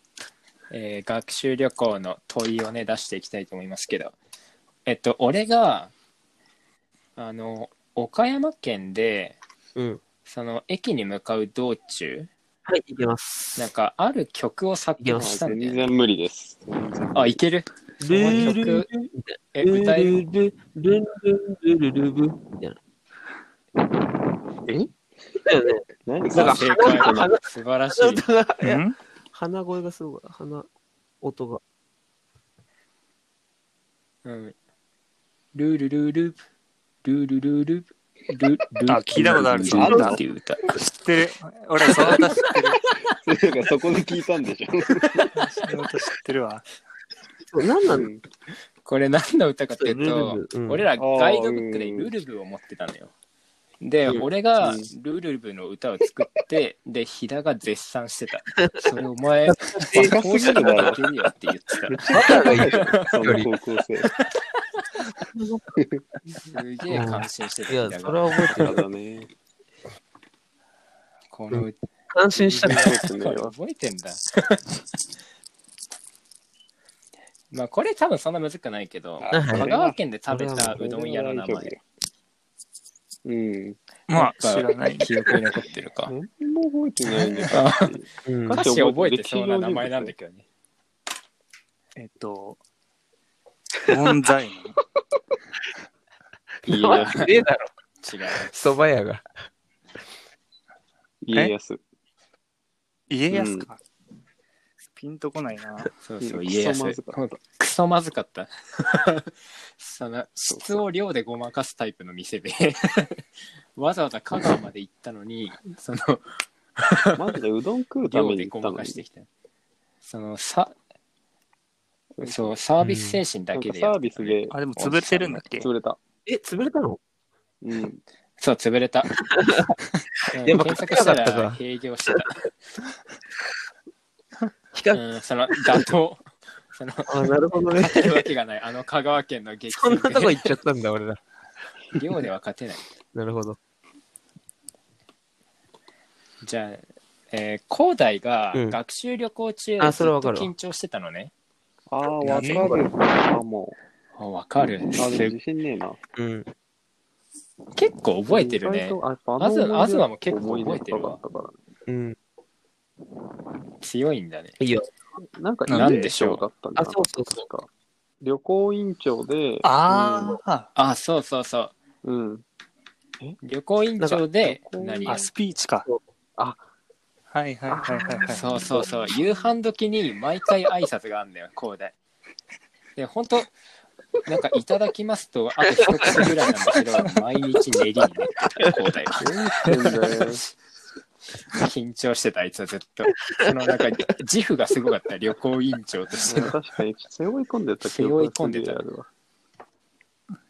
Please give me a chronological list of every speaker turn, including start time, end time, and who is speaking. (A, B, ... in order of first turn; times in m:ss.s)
0:00.7-0:04.2 A
0:04.9-0:05.9 A
0:07.2-0:09.4 A
0:09.8-0:10.0 B
0:10.2-0:12.3 A
0:12.7-0:13.7 B
0:13.6-0:15.9 A
0:15.0-0:15.4 B
0:15.1-0:17.4 C
0:17.1-0:18.9 A
0:18.0-0:22.8 B
0:19.6-0:20.2 A
0:25.4-0:30.7 B
0:26.1-0:27.3 C
0:26.3-0:28.2 A
0:28.6-0:28.9 D
0:31.2-0:31.6 B
0:34.2-0:34.6 A
0:35.6-0:36.4 A
0:37.0-0:40.8 A
0:38.9-0:40.2 D
0:39.2-0:40.2 C
0:39.9-0:40.2 B
0:40.7-0:42.8 D
0:43.2-0:45.3 C
0:45.4-0:46.6 D
0:47.5-0:48.1 B
0:47.9-0:48.2 C
0:48.8-0:53.1 A
0:49.8-0:50.9 B
0:51.0-0:52.1 C
0:53.8-1:03.3 A
0:54.6-0:54.9 C
0:59.5-1:00.9 B
1:00.0-1:01.0 C
1:01.9-1:04.1 C
1:02.2-1:03.5 B
1:05.4-1:05.6 B
1:06.5-1:08.8 A
1:06.9-1:08.7 B
1:08.5-1:09.3 C
1:11.3-1:11.8 A
1:11.5-1:12.9 B
1:12.4-1:13.5 C
1:12.6-1:14.6 A
1:17.5-1:21.8 A
1:19.2-1:20.0 C
1:19.3-1:19.7 B
1:20.3-1:20.8 B
1:20.5-1:21.8 C
1:23.2-1:23.8 C
1:24.1-1:25.1 D
1:24.1-1:26.1 A
1:26.1-1:30.1 C
1:27.3-1:27.9 A
1:28.3-1:28.7 B
1:28.6-1:30.5 A
1:32.0-1:32.6 D
1:33.8-1:34.8 D
1:36.7-1:37.3 A
1:36.7-1:37.3 C
1:36.7-1:37.7 B
1:38.0-1:38.6 A
1:38.3-1:39.3 B
1:41.2-1:41.8 C
1:43.1-1:43.8 D
1:43.3-1:43.7 C
1:45.0-1:45.9 D
1:46.0-1:53.2 A
1:46.2-1:47.3 C
1:50.5-1:50.8 C
1:53.8-1:57.2 A
1:57.2-1:59.0 C
1:58.0-1:59.3 A
2:00.0-2:00.7 A
2:02.2-2:02.6 C
2:02.2-2:05.0 A
2:02.8-2:03.2 B
2:03.5-2:06.0 C
2:04.5-2:05.7 D
2:06.3-2:07.0 B
2:07.6-2:08.0 C
2:08.4-2:09.2 A
2:09.3-2:09.7 B
2:10.3-2:12.5 A
2:10.4-2:12.2 B
2:14.8-2:15.1 B
2:14.9-2:20.5 A
2:17.1-2:18.2 B
2:19.7-2:21.2 B
2:22.0-2:22.9 A
2:23.1-2:23.6 B
2:26.4-2:31.3 A
2:29.8-2:30.5 B
2:31.9-2:33.8 C
2:32.2-2:32.8 B
2:32.4-2:32.8 D
2:34.2-2:35.4 A
2:35.0-2:36.0 C
2:36.2-2:36.5 B
2:37.8-2:41.2 A
2:38.3-2:41.6 C
2:41.9-2:42.2 B
2:43.8-2:44.6 A
2:44.6-2:44.9 B
2:45.4-2:47.7 C
2:45.7-2:45.9 D
2:45.7-2:46.5 A
2:46.8-2:47.4 B
2:48.2-2:50.4 C
2:49.6-2:50.7 D
2:50.8-2:51.7 A
2:52.0-2:52.4 C
2:53.4-2:55.3 A
2:54.0-2:54.3 B
2:54.4-2:55.3 C
2:55.0-2:55.9 D
2:57.3-2:58.6 D
2:57.7-2:58.9 C
2:58.3-3:02.0 A
3:03.0-3:03.5 A
3:04.2-3:09.3 A
3:05.7-3:06.2 B
3:09.2-3:10.4 C
3:11.5-3:16.6 A
3:13.4-3:14.1 B
3:16.3-3:19.1 C
3:17.8-3:18.8 A